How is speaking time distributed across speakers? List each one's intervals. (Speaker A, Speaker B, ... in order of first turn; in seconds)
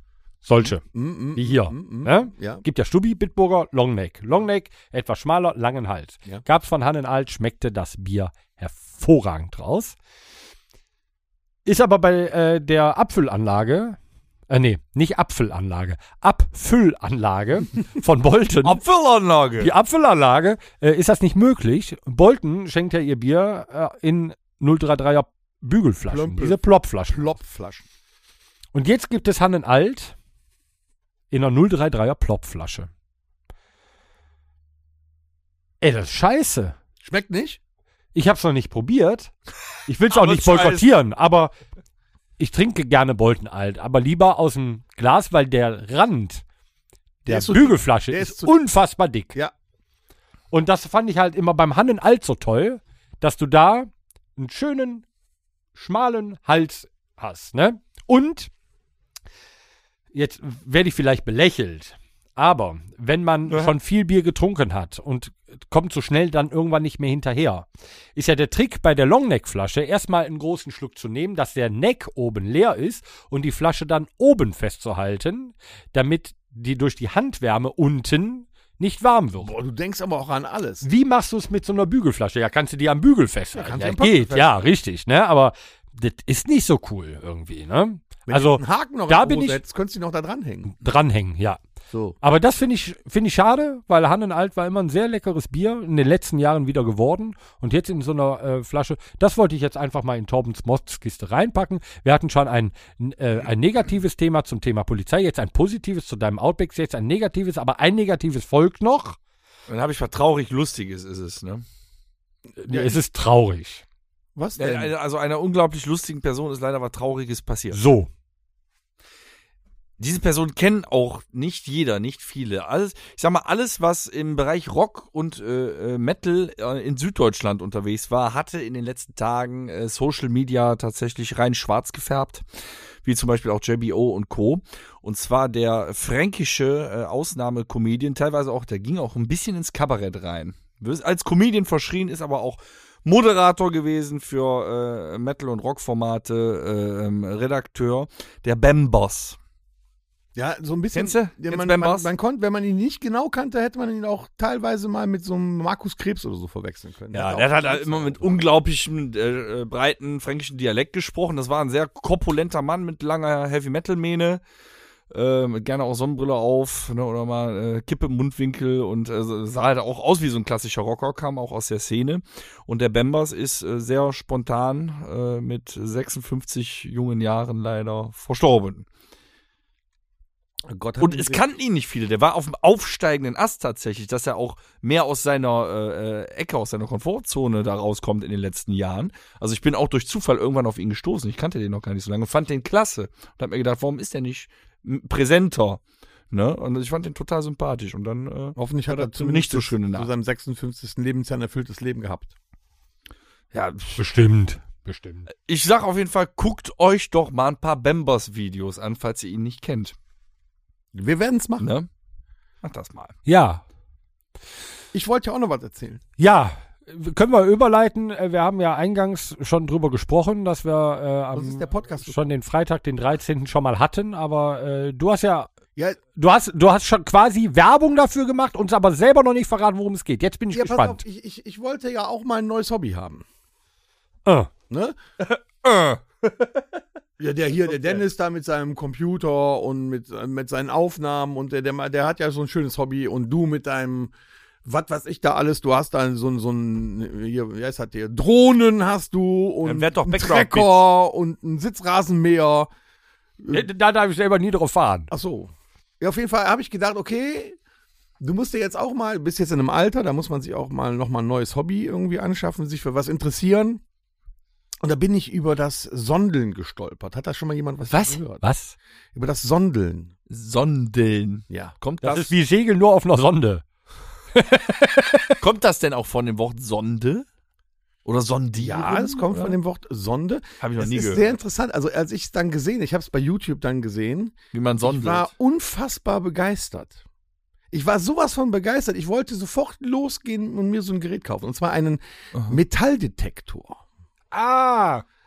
Speaker A: 0.4-0.8, 1.3-9.9, 11.6-14.0, 14.5-18.8, 19.6-27.4, 28.7-30.1, 31.3-32.9, 35.8-36.7, 38.1-39.3, 39.9-41.5, 42.4-46.4, 47.2-49.4, 50.5-55.0, 55.7-58.5, 60.1-79.5, 80.8-89.6, 90.7-91.6, 92.2-109.2, 112.6-113.8, 117.7-118.1, 204.0-205.3, 213.2-213.6, 216.2-225.5, 226.1-231.0, 234.2-234.5, 253.5-255.1, 268.4-268.8, 272.0-273.6, 274.3-275.4
Speaker B: 0.6-2.6, 26.1-27.8, 37.0-37.6, 47.2-48.6, 79.4-80.8, 83.5-84.6, 88.3-90.7, 91.9-92.2, 112.7-113.0, 114.3-114.9, 150.3-158.4, 180.7-181.4, 198.6-202.3, 210.9-211.7, 214.9-216.0, 221.3-222.2, 230.5-233.2, 234.7-235.0, 237.2-244.1, 244.6-252.7, 253.4-253.7, 255.1-257.6, 258.2-263.8, 264.8-268.4, 269.1-270.1, 271.5-271.7, 278.6-287.0, 287.7-293.8
Speaker C: 18.6-19.7, 40.1-40.9, 109.7-111.6, 114.6-117.8, 120.0-132.4, 133.0-149.4, 150.9-152.1, 157.1-164.4, 165.1-178.8, 181.0-200.1, 203.5-204.0, 205.4-209.9, 211.6-211.9, 212.6-213.2, 235.6-236.0, 249.6-250.9, 267.9-268.2, 270.3-272.3, 275.4-277.2, 278.0-279.6, 280.6-281.4, 284.5-285.3, 292.3-292.6, 294.3-295.0